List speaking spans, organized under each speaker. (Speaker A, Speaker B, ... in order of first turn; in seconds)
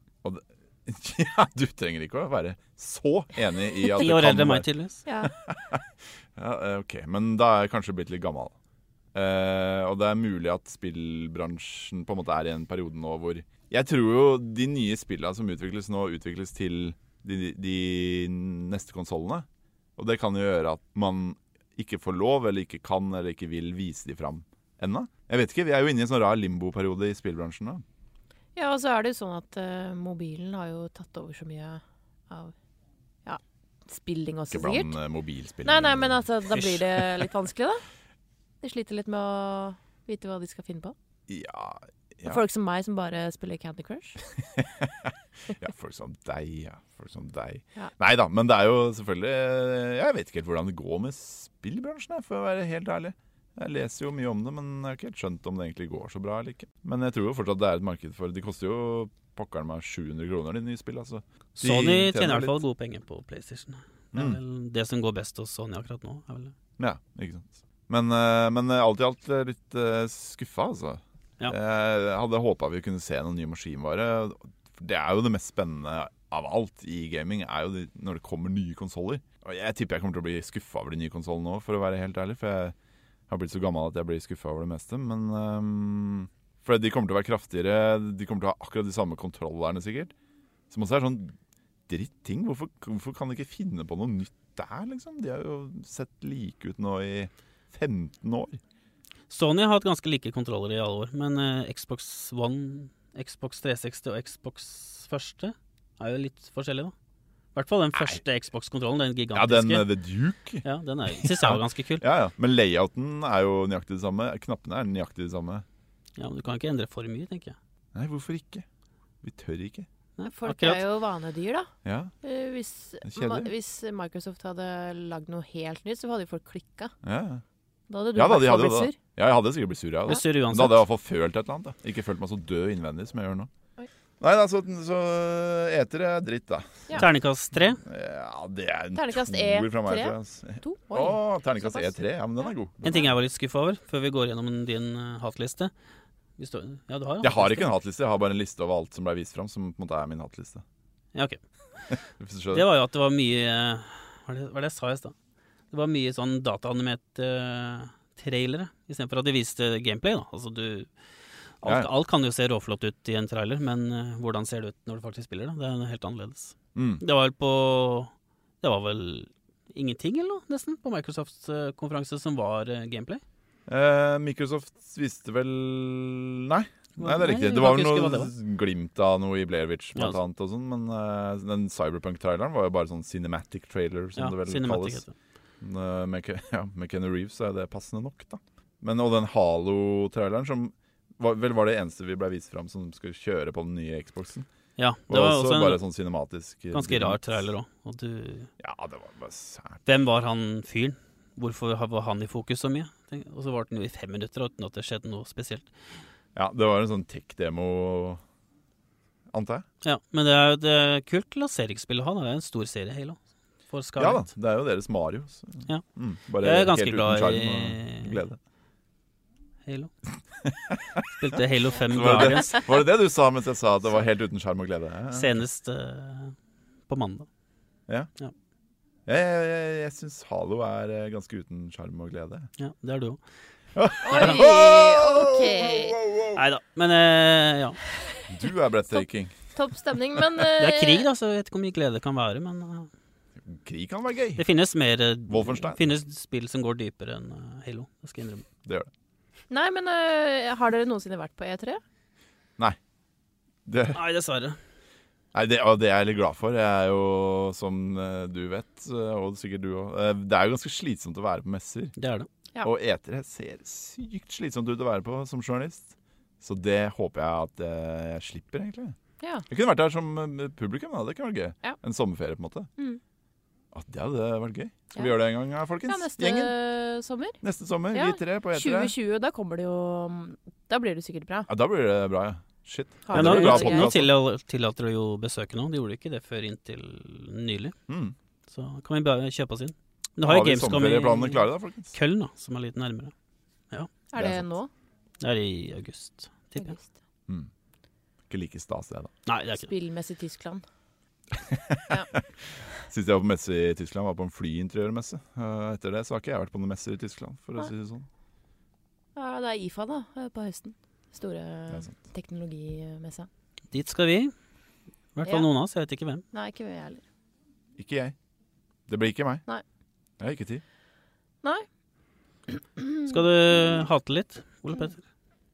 Speaker A: 0.2-4.7, 5.2-8.5, 9.1-19.4, 20.0-27.8, 34.5-37.0, 41.3-42.4, 44.4-62.6, 64.1-64.4, 66.8-82.7, 83.3-90.1, 90.7-91.3, 91.9-98.6, 107.9-108.2, 109.3-110.6, 111.2-115.6, 117.9-118.7, 119.2-119.9, 121.8-122.1, 123.0-123.5, 127.0-127.4, 128.1-133.5, 134.2-137.1, 137.8-143.1, 147.2-150.6, 151.9-152.6, 161.6-161.9, 166.7-167.0, 173.7-185.0, 185.6-194.5, 195.1-197.2, 198.6-199.8, 206.3-208.2, 209.3-209.6, 214.0-218.4, 220.4-221.4, 221.9-225.3, 229.1-232.5, 233.7-236.4, 238.3-239.4, 243.4-244.4, 245.3-245.8, 248.6-248.9, 253.7-254.0, 255.3-261.9, 262.6-268.9, 269.5-272.7, 273.7-276.5, 277.4-278.9, 281.5-284.1, 287.9-288.1, 290.2-291.9, 294.1-294.4, 298.3-299.1, 301.3-308.1, 317.8-318.1, 318.9-319.4, 320.2-320.6
Speaker B: 4.0-5.0, 61.6-66.5, 99.3-106.9, 107.5-109.9, 110.6-112.0, 116.2-117.6, 120.2-120.8, 130.1-130.8, 136.9-137.8, 142.8-145.7, 146.4-147.7, 151.1-151.9, 152.5-155.1, 155.7-160.9, 161.6-173.2, 177.0-178.3, 184.2-185.1, 194.8-195.8, 196.7-198.5, 199.8-205.7, 209.8-214.2, 216.4-218.2, 219.7-219.9, 221.1-222.7, 225.1-226.3, 226.9-227.3, 232.6-233.2, 234.1-234.4, 236.3-237.8, 240.6-242.9, 244.4-248.4, 253.9-254.6, 262.0-262.3, 283.1-287.7, 288.5-293.1, 295.2-296.7, 299.2-299.7, 313.7-314.3, 315.1-316.2, 323.1-325.0
Speaker C: 5.0-5.3, 28.6-32.5, 33.2-35.0, 35.6-37.8, 38.6-40.9, 42.2-44.2, 120.2-121.7, 122.2-126.9, 127.9-129.0, 138.9-142.0, 234.0-236.0, 239.5-241.1, 249.5-251.8, 269.2-269.4, 275.8-277.4, 277.9-281.5, 283.1-283.9, 294.1-294.7, 296.6-296.9, 299.6-300.6, 309.1-313.3, 316.3-317.0, 322.8-323.2